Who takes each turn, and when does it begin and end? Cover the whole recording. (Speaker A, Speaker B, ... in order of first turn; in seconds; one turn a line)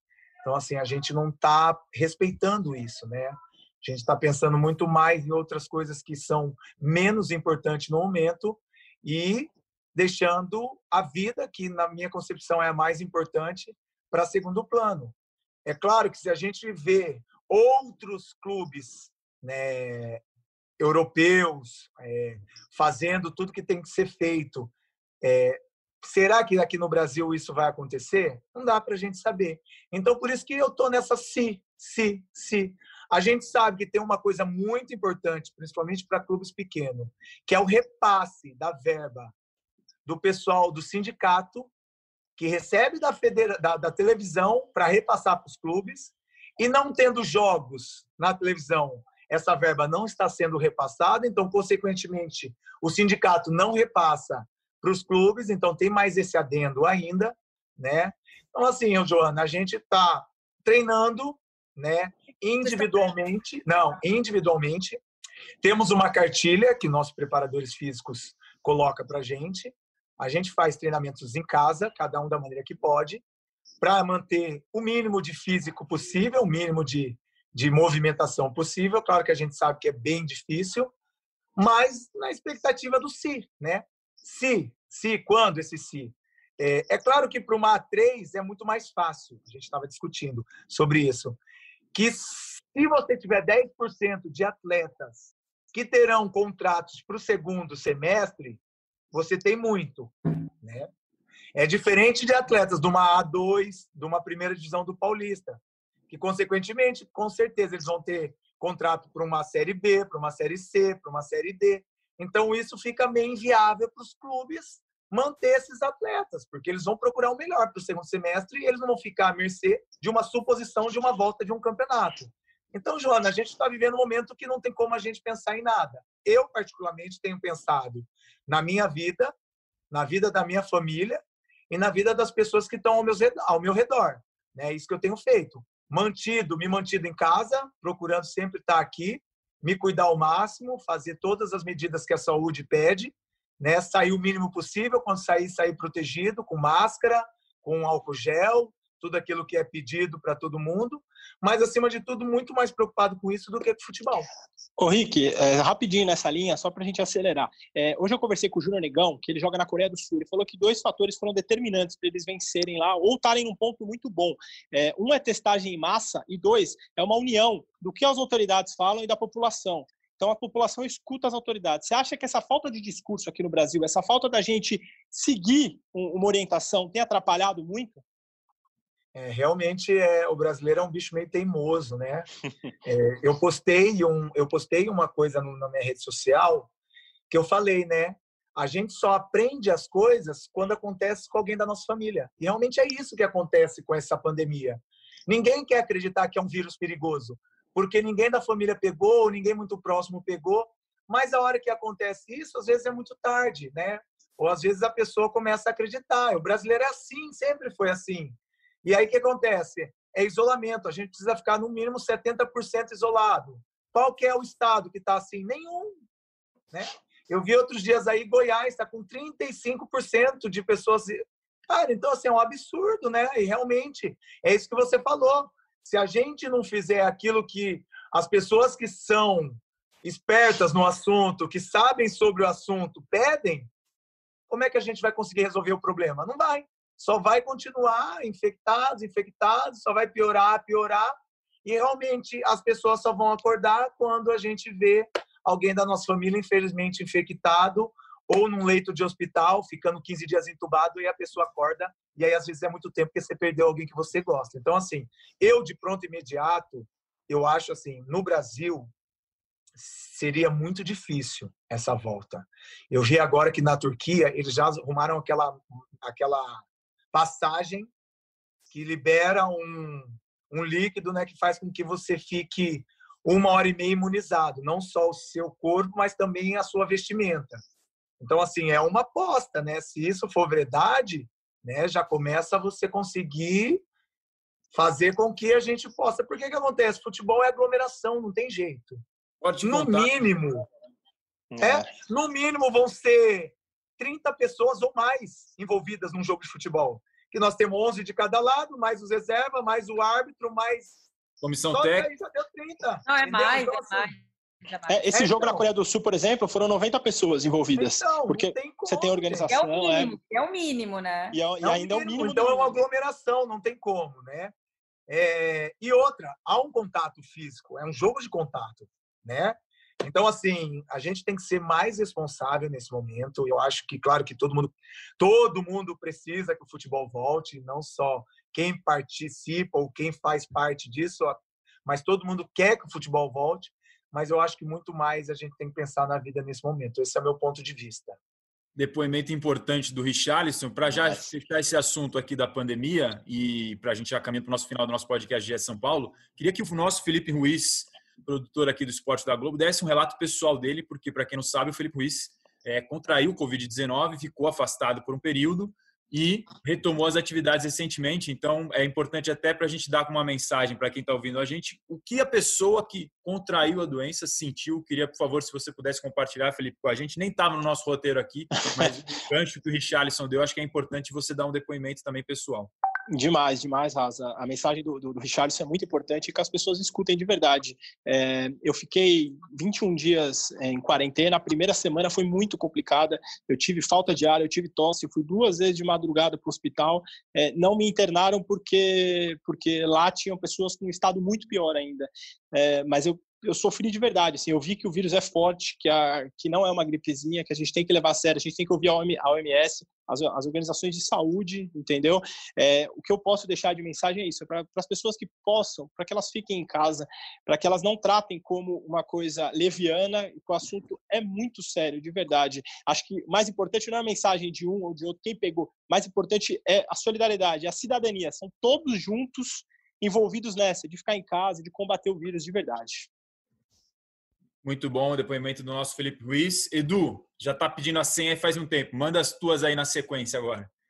Speaker A: 0.4-20.2
Speaker A: 20.8-39.3
Speaker A: 40.0-41.7
Speaker A: 42.4-65.0
Speaker A: 65.6-73.2
Speaker A: 73.8-80.9
Speaker A: 81.6-91.4
Speaker A: 91.9-98.6
Speaker A: 99.1-100.9
Speaker A: 101.5-129.3
Speaker A: 129.9-131.2
Speaker A: 131.7-154.3
Speaker B: 154.8-178.0
Speaker A: 179.1-182.3
Speaker A: 182.8-186.7
Speaker A: 187.3-216.0
Speaker A: 216.7-233.7
Speaker A: 234.5-258.9
Speaker A: 259.8-267.9
Speaker A: 268.7-277.6
Speaker A: 278.2-283.8
Speaker A: 284.7-289.0
Speaker C: 289.4-290.2
Speaker A: 289.6-290.6
Speaker B: 291.5-291.9
Speaker A: 291.6-300.9
Speaker C: 301.4-302.1
Speaker A: 301.7-304.1
Speaker D: 303.1-305.3
Speaker B: 304.9-310.1
Speaker A: 305.1-305.6
Speaker A: 307.7-309.5
Speaker D: 309.5-311.4
Speaker B: 311.3-312.7
Speaker A: 311.6-314.5
Speaker A: 315.1-338.2
Speaker C: 338.8-372.7
Speaker B: 373.1-423.1
Speaker C: 424.6-430.7